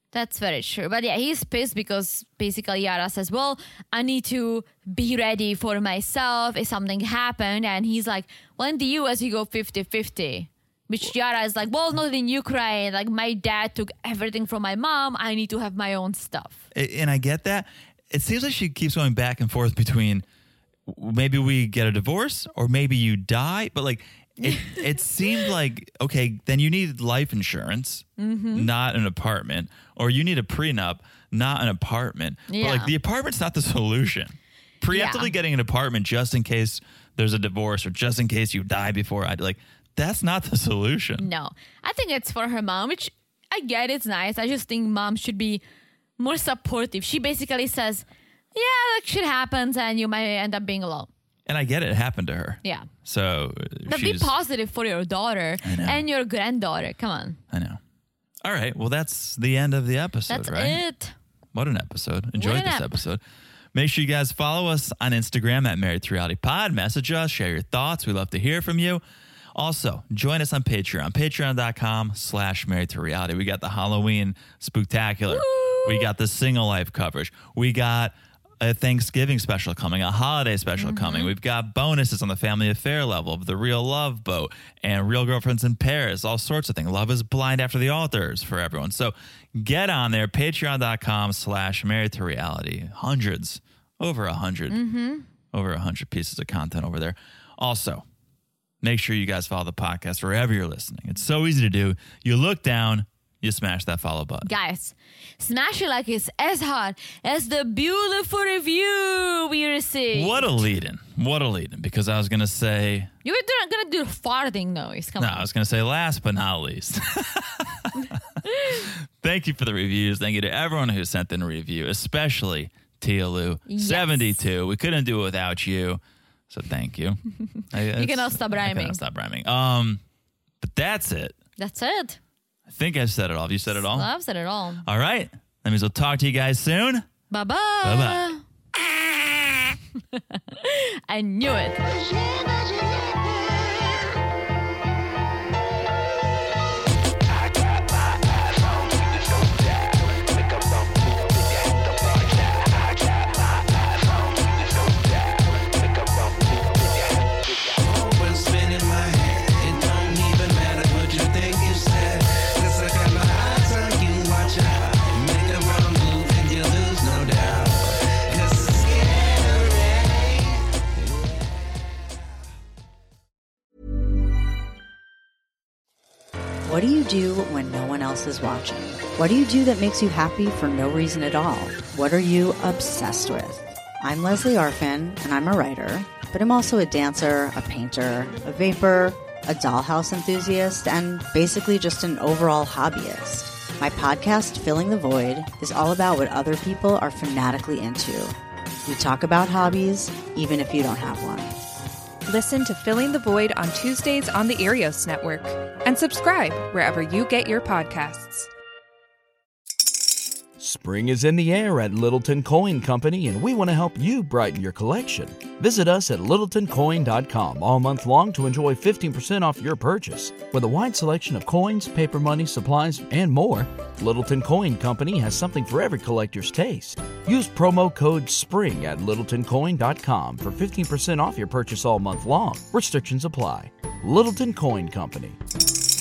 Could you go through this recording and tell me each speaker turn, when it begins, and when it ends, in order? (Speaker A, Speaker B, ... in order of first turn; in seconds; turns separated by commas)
Speaker A: 0.1-16.6, Speaker B: 16.7-20.2, Speaker B: 20.9-41.3, Speaker A: 24.4-24.8, Speaker A: 28.2-28.7, Speaker A: 32.5-32.9, Speaker A: 34.9-35.3, Speaker A: 41.2-45.6, Speaker A: 46.2-51.1, Speaker B: 51.5-54.3, Speaker A: 52.6-52.9, Speaker A: 53.9-57.4, Speaker B: 55.6-56.0, Speaker B: 57.5-57.8, Speaker B: 58.4-60.8, Speaker A: 60.3-61.1, Speaker B: 61.5-63.2, Speaker A: 62.4-63.0, Speaker B: 63.7-69.0, Speaker B: 69.5-94.8, Speaker A: 75.3-76.1, Speaker A: 80.8-81.3, Speaker A: 94.7-95.3, Speaker B: 95.5-98.0, Speaker B: 98.8-104.5, Speaker A: 104.4-110.6, Speaker B: 110.1-113.1, Speaker A: 113.2-115.5, Speaker B: 115.2-130.0, Speaker A: 123.7-124.4, Speaker A: 127.9-129.0, Speaker B: 130.6-131.3, Speaker A: 131.6-132.2, Speaker B: 132.7-134.1, Speaker A: 133.8-134.8, Speaker B: 134.8-137.1, Speaker A: 137.3-138.4, Speaker B: 137.8-138.3, Speaker A: 140.1-141.9, Speaker C: 151.7-152.7, Speaker C: 153.8-157.2, Speaker C: 157.7-170.6, Speaker D: 176.6-201.6, Speaker E: 202.3-208.5, Speaker F: 210.6-235.4